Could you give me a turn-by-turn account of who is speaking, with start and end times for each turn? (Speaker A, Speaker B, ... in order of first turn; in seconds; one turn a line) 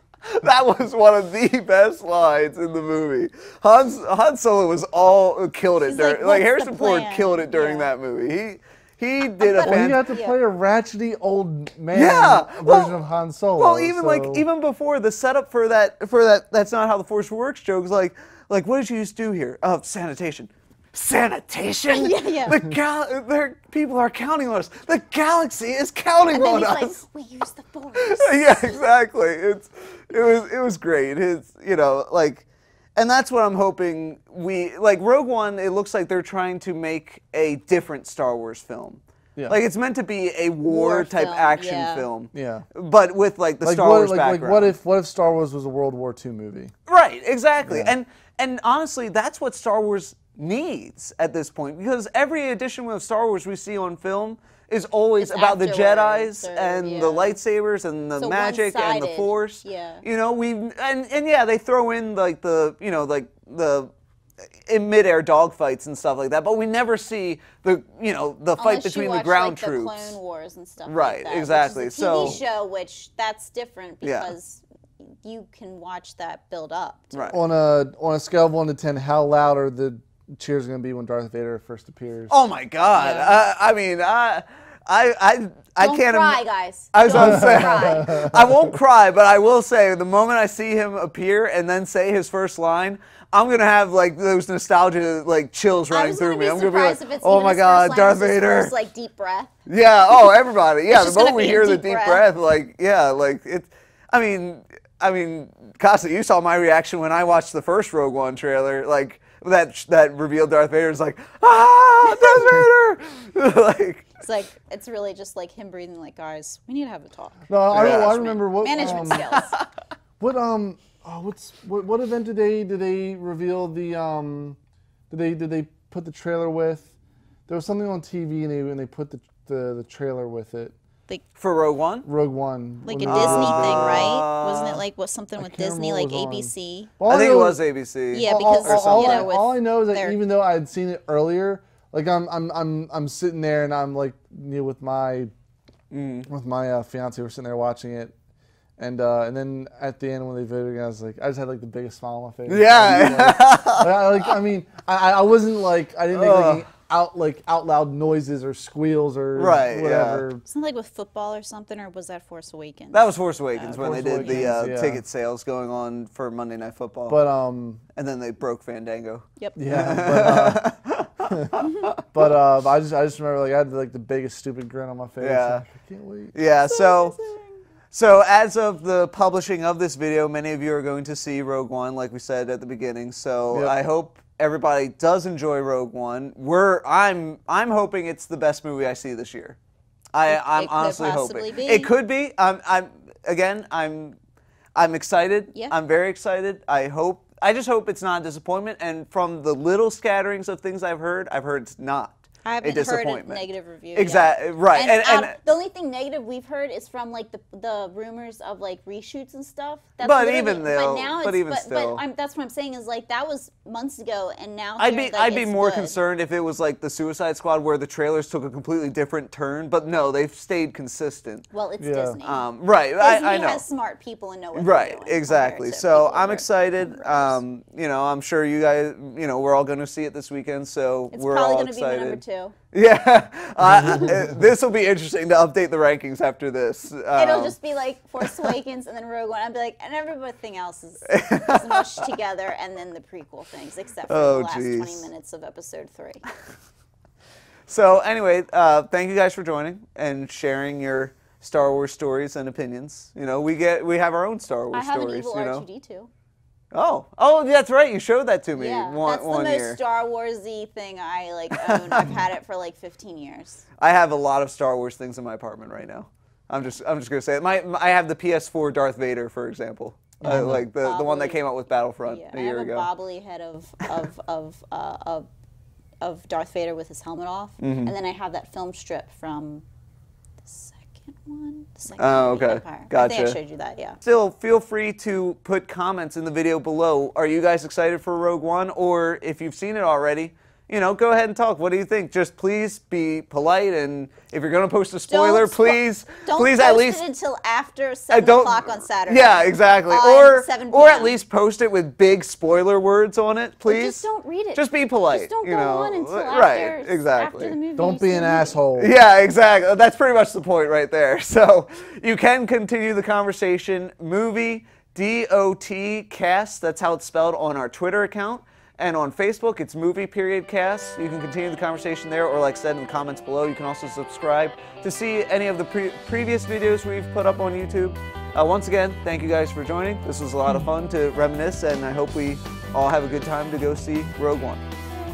Speaker A: 0.2-10.1
Speaker B: 5.8-7.9
Speaker B: 9.4-10.4
Speaker C: 9.6-14.4
Speaker A: 11.9-13.0
Speaker A: 13.6-27.0
Speaker B: 21.9-22.6
Speaker B: 26.3-28.9
Speaker A: 28.0-44.7
Speaker B: 40.6-42.1
Speaker C: 42.3-42.6
Speaker C: 43.6-46.7
Speaker A: 46.9-63.9
Speaker C: 47.6-47.9
Speaker B: 55.2-57.4
Speaker B: 58.2-60.0
Speaker A: 64.7-70.2
Speaker B: 68.6-77.4
Speaker A: 70.8-72.4
Speaker A: 74.0-74.3
Speaker A: 77.1-77.4
Speaker C: 77.3-82.3
Speaker A: 82.3-98.7
Speaker B: 82.9-83.4
Speaker B: 85.8-88.4
Speaker C: 87.1-88.3
Speaker B: 95.9-99.5
Speaker A: 99.7-114.2
Speaker B: 100.9-102.2
Speaker B: 112.0-112.6
Speaker B: 114.2-119.5
Speaker C: 117.5-119.3
Speaker A: 117.7-119.6
Speaker C: 120.2-124.6
Speaker C: 125.1-126.9
Speaker C: 127.5-130.7
Speaker A: 131.4-132.1
Speaker C: 132.0-134.2
Speaker B: 132.8-136.9
Speaker A: 133.1-134.8
Speaker C: 135.4-137.6
Speaker A: 137.1-139.3
Speaker B: 138.1-140.2
Speaker C: 138.2-145.3
Speaker A: 145.9-146.3
Speaker C: 146.3-148.1
Speaker C: 148.8-160.4
Speaker A: 152.5-154.1
Speaker A: 156.1-156.6
Speaker A: 159.3-160.2
Speaker B: 160.4-164.6
Speaker A: 162.9-167.2
Speaker C: 163.6-165.0
Speaker C: 167.1-167.8
Speaker A: 167.9-172.0
Speaker C: 169.6-170.6
Speaker C: 171.2-176.3
Speaker A: 175.2-175.7
Speaker A: 176.3-177.2
Speaker B: 176.6-177.6
Speaker A: 177.9-189.6
Speaker A: 190.1-194.2
Speaker B: 190.3-191.9
Speaker A: 194.7-205.4
Speaker B: 202.4-215.9
Speaker A: 210.0-212.0
Speaker A: 214.8-221.5
Speaker B: 221.5-227.4
Speaker C: 221.8-222.2
Speaker A: 222.2-223.6
Speaker A: 224.5-237.6
Speaker B: 231.1-232.6
Speaker B: 237.1-246.2
Speaker A: 238.2-238.5
Speaker A: 241.1-242.1
Speaker A: 244.1-245.1
Speaker A: 247.7-255.6
Speaker B: 254.7-256.1
Speaker A: 256.7-259.8
Speaker B: 258.5-263.6
Speaker A: 261.5-262.2
Speaker A: 263.8-272.9
Speaker B: 270.2-271.4
Speaker C: 270.3-270.6
Speaker B: 272.1-275.3
Speaker B: 276.0-279.6
Speaker A: 277.6-277.9
Speaker B: 280.4-284.0
Speaker A: 282.0-283.4
Speaker A: 284.0-297.0
Speaker B: 295.1-301.1
Speaker A: 298.1-307.6
Speaker B: 303.6-308.6
Speaker C: 307.8-308.9
Speaker A: 308.8-334.6